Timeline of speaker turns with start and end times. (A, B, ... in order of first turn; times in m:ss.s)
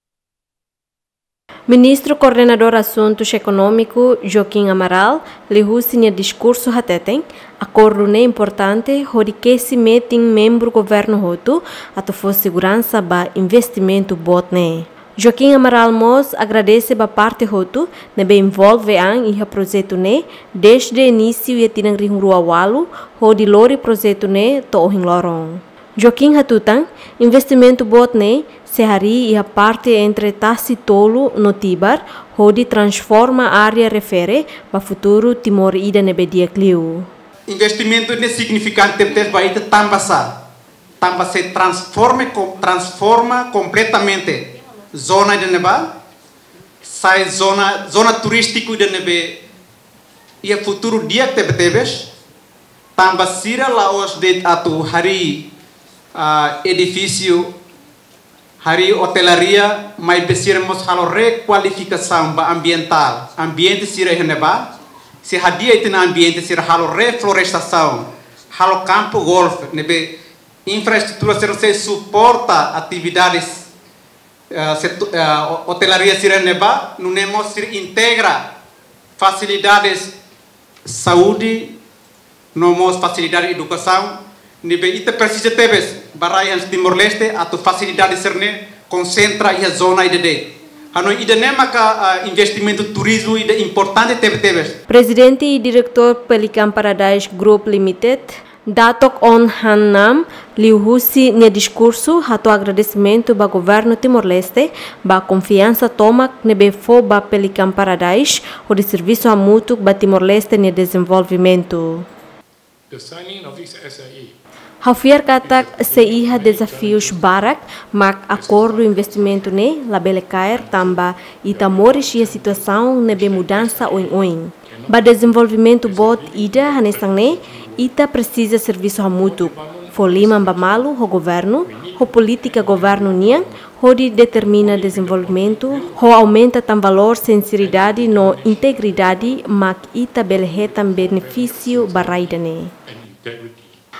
0:01.7-0:37.1 A
0:37.5-0:40.3 B
0:41.0-0:45.9 B
0:46.8-0:49.4 B
0:50.4-0:52.1 B
0:53.0-0:55.5 B
0:56.1-0:57.5 B
0:58.6-1:04.6 B
1:05.2-1:10.1 B
1:10.6-1:13.7 B
1:14.5-1:18.5 B
1:19.2-1:20.1 B
1:20.8-1:21.7 B
1:22.5-1:34.8 B
1:34.9-1:52.0 A
1:52.9-1:54.4 C
1:54.8-2:22.7 A
1:55.4-1:57.5 C
1:58.3-1:59.5 C
2:00.5-2:07.9 C
2:09.2-2:10.9 C
2:11.6-2:13.6 C
2:14.3-2:16.4 C
2:17.6-2:19.5 C
2:20.4-2:23.8 C